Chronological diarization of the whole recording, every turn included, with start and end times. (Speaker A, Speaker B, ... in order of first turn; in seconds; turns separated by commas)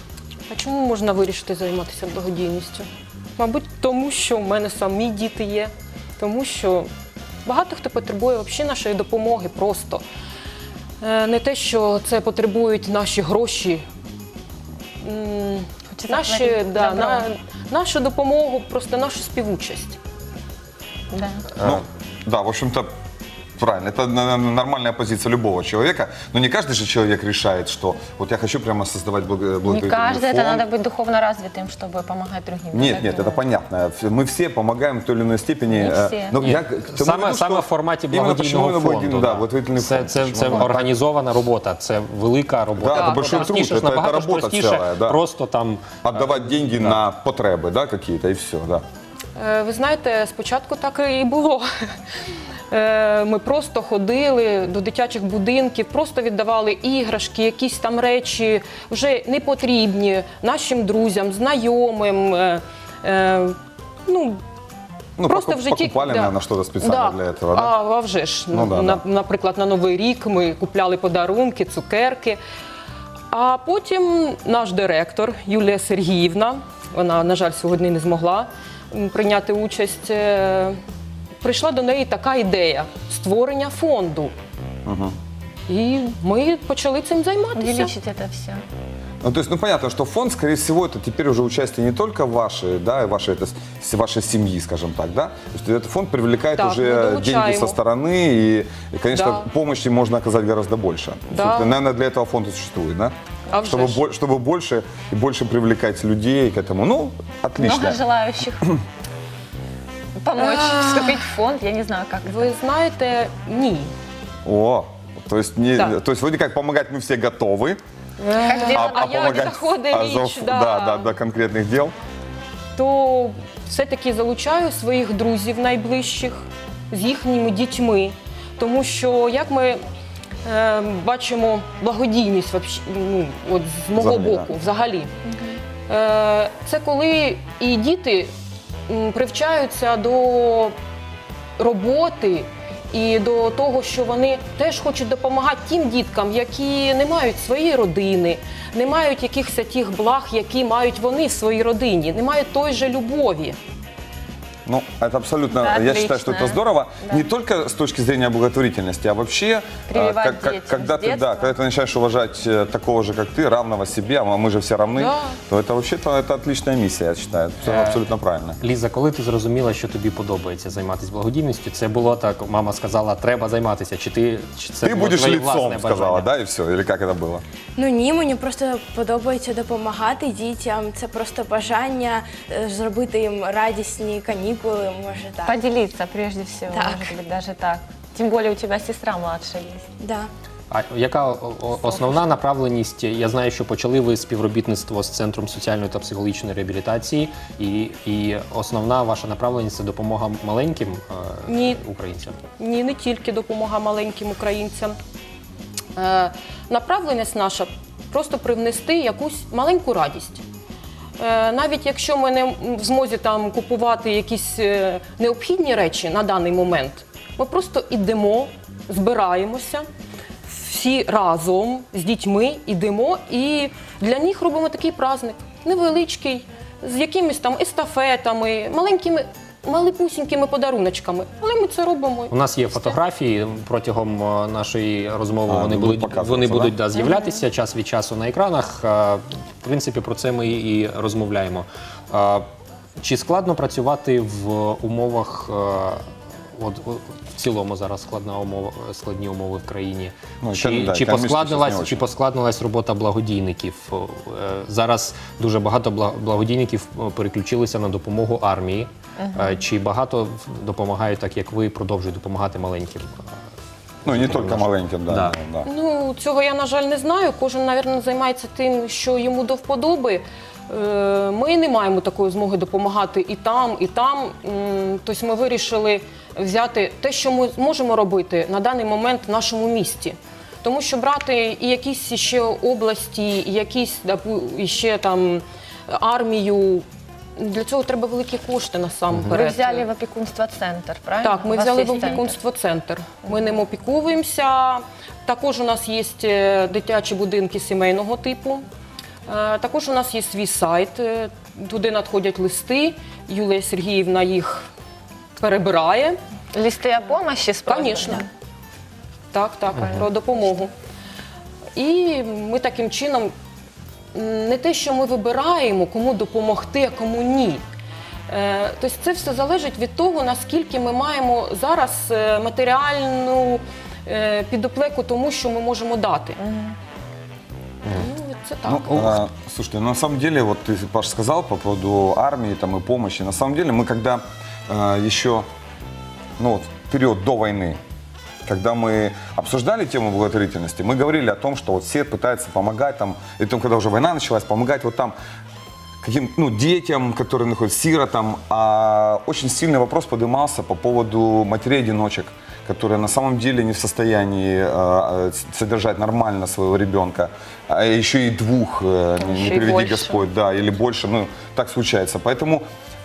Speaker A: 0.5-2.9, Speaker A: 3.4-6.9, Speaker A: 7.5-10.0, Speaker A: 11.0-13.8, Speaker A: 15.0-20.0, Speaker B: 15.9-17.2, Speaker B: 21.1-21.5, Speaker C: 21.6-22.9, Speaker C: 23.6-30.6, Speaker B: 29.6-33.4, Speaker C: 32.7-40.9, Speaker B: 35.7-36.4, Speaker D: 36.4-47.0, Speaker C: 42.8-45.2, Speaker A: 42.9-43.6, Speaker C: 46.0-48.8, Speaker A: 49.4-51.7, Speaker A: 52.7-63.5, Speaker A: 64.1-64.4, Speaker C: 65.2-67.7, Speaker A: 65.3-72.4, Speaker C: 68.5-69.0, Speaker A: 73.3-80.8, Speaker A: 81.4-84.3, Speaker C: 84.8-85.2, Speaker A: 85.7-87.9, Speaker B: 87.5-88.6, Speaker C: 89.2-108.0, Speaker A: 96.6-97.8, Speaker A: 99.1-99.5, Speaker A: 101.3-101.7, Speaker A: 103.5-104.0, Speaker B: 107.6-108.8, Speaker B: 110.2-112.5, Speaker A: 110.4-111.2, Speaker A: 112.2-113.9, Speaker C: 114.4-117.8, Speaker A: 118.2-121.1, Speaker B: 118.3-119.5, Speaker C: 118.7-121.9, Speaker A: 122.8-129.8, Speaker A: 130.4-135.1, Speaker C: 133.9-134.5, Speaker B: 135.3-135.6, Speaker A: 135.9-138.3, Speaker A: 138.9-140.7, Speaker A: 141.6-153.6, Speaker C: 154.7-168.6, Speaker B: 155.5-157.2, Speaker B: 159.9-161.5, Speaker A: 164.9-165.3, Speaker D: 167.6-168.0, Speaker D: 168.6-176.3, Speaker C: 174.8-177.4, Speaker E: 177.8-185.6, Speaker B: 185.4-189.8, Speaker E: 186.7-187.1, Speaker E: 190.0-190.3, Speaker D: 190.7-202.4, Speaker A: 201.5-201.8, Speaker A: 202.6-204.9, Speaker A: 205.9-210.4, Speaker A: 211.2-219.8, Speaker A: 220.4-232.9, Speaker D: 232.3-242.5, Speaker C: 235.5-236.8, Speaker B: 237.0-237.3, Speaker D: 243.0-246.0, Speaker D: 246.6-263.1, Speaker C: 250.4-252.0, Speaker B: 259.2-259.6, Speaker C: 264.0-265.7, Speaker D: 264.1-265.4, Speaker A: 265.6-286.8, Speaker A: 287.4-289.9, Speaker B: 289.3-292.4, Speaker A: 291.2-298.6, Speaker A: 299.3-304.7, Speaker A: 305.4-306.2, Speaker B: 306.5-308.2, Speaker A: 307.6-308.3, Speaker A: 309.3-310.7, Speaker A: 311.8-313.3, Speaker A: 314.1-317.6, Speaker A: 318.3-326.4, Speaker B: 326.4-326.8, Speaker A: 327.9-329.0, Speaker C: 328.6-335.4, Speaker D: 328.9-329.2, Speaker C: 336.4-337.8, Speaker C: 338.4-345.1, Speaker C: 346.0-362.6, Speaker B: 359.2-360.2